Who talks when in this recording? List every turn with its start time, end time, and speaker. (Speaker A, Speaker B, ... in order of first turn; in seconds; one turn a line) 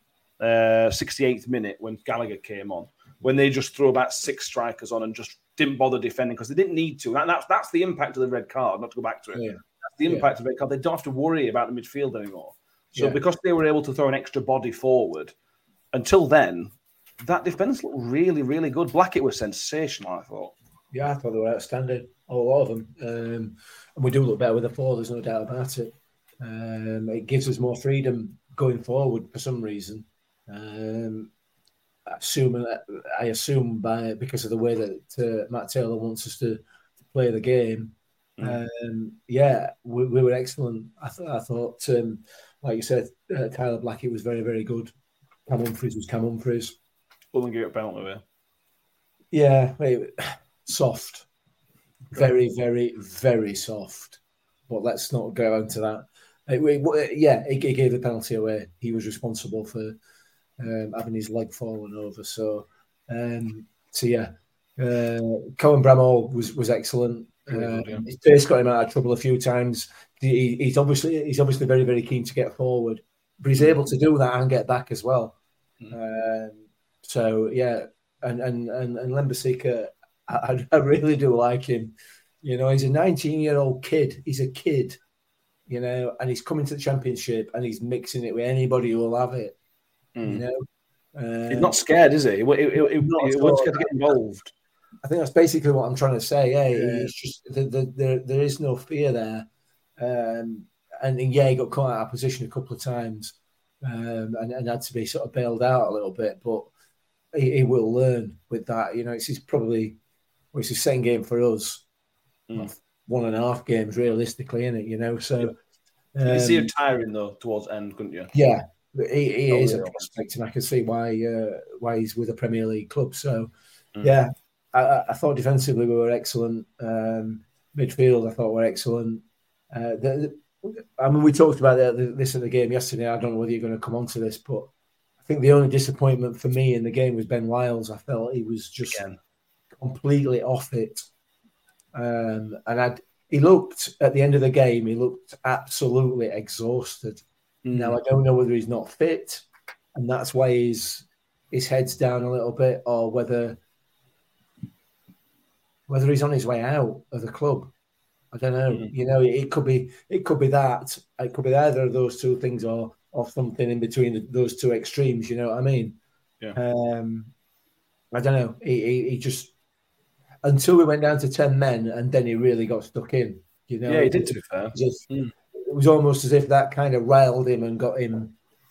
Speaker A: 0.4-15.3
Speaker B: 9.3-10.3
Speaker A: 15.9-20.5
Speaker B: 20.9-31.3
Speaker B: 32.1-44.9
Speaker B: 45.5-46.8
Speaker A: 47.3-48.2
Speaker B: 49.3-51.3
Speaker B: 52.1-60.0
Speaker B: 60.6-75.4
Speaker A: 67.5-68.1
Speaker A: 73.6-73.8
Speaker B: 75.9-85.0
Speaker B: 85.7-89.6
Speaker A: 90.2-90.4
Speaker B: 90.2-90.6
Speaker B: 91.2-91.8
Speaker A: 91.5-94.5
Speaker B: 92.8-94.2
Speaker B: 95.0-99.5
Speaker A: 96.7-97.1
Speaker B: 100.0-106.7
Speaker B: 107.3-110.0
Speaker B: 110.5-111.8
Speaker B: 112.5-115.6
Speaker B: 116.2-116.7
Speaker A: 116.3-118.3
Speaker B: 118.3-123.5
Speaker A: 119.5-120.1
Speaker B: 124.0-134.7
Speaker B: 135.3-139.0
Speaker A: 138.9-139.2
Speaker B: 139.8-141.1
Speaker B: 141.9-153.6
Speaker A: 147.7-148.0
Speaker B: 155.9-157.7
Speaker B: 158.3-166.0
Speaker B: 166.6-167.3
Speaker B: 168.1-169.5
Speaker B: 170.4-178.3
Speaker A: 173.9-175.3